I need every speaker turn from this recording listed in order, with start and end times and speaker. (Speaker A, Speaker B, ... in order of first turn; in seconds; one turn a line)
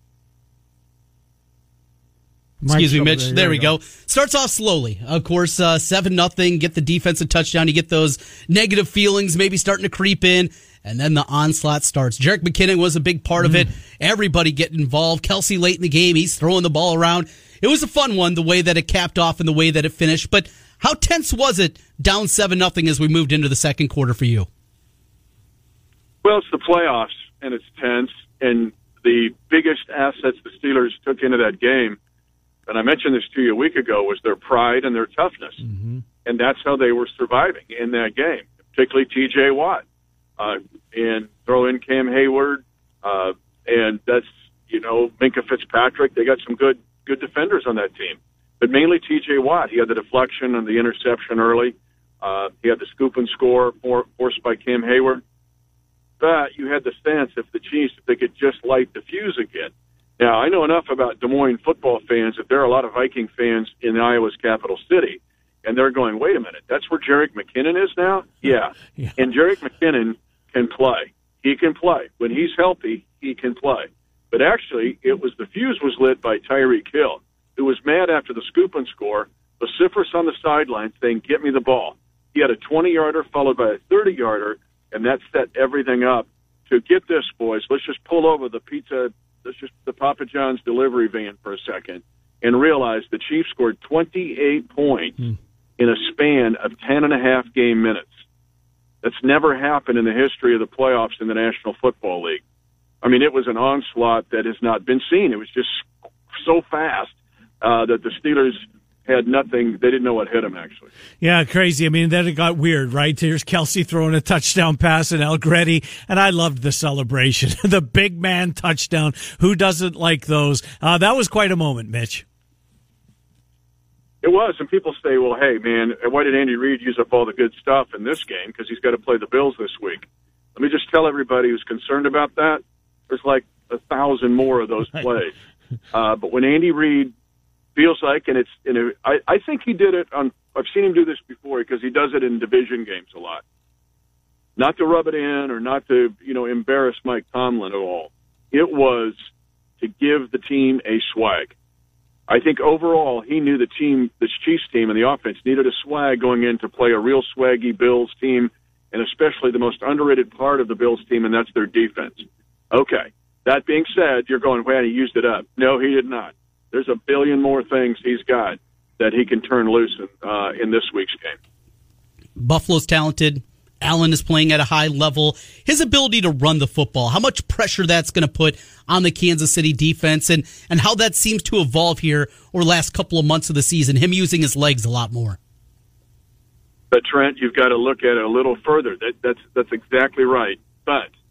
Speaker A: 2.6-3.7
Speaker B: 2.7-24.5
Speaker A: 13.4-13.7
Speaker C: 26.2-32.0
Speaker C: 32.7-35.6
Speaker A: 35.7-36.0
Speaker C: 36.2-39.8
Speaker C: 40.4-55.2
Speaker C: 56.2-95.3
Speaker C: 95.8-98.1
Speaker C: 99.0-102.4
Speaker C: 103.0-110.9
Speaker A: 111.2-122.2
Speaker C: 124.2-135.3
Speaker C: 135.9-137.1
Speaker C: 137.8-143.4
Speaker C: 144.6-149.2
Speaker C: 149.8-151.5
Speaker C: 152.3-171.4
Speaker B: 172.4-185.4
Speaker C: 186.9-191.1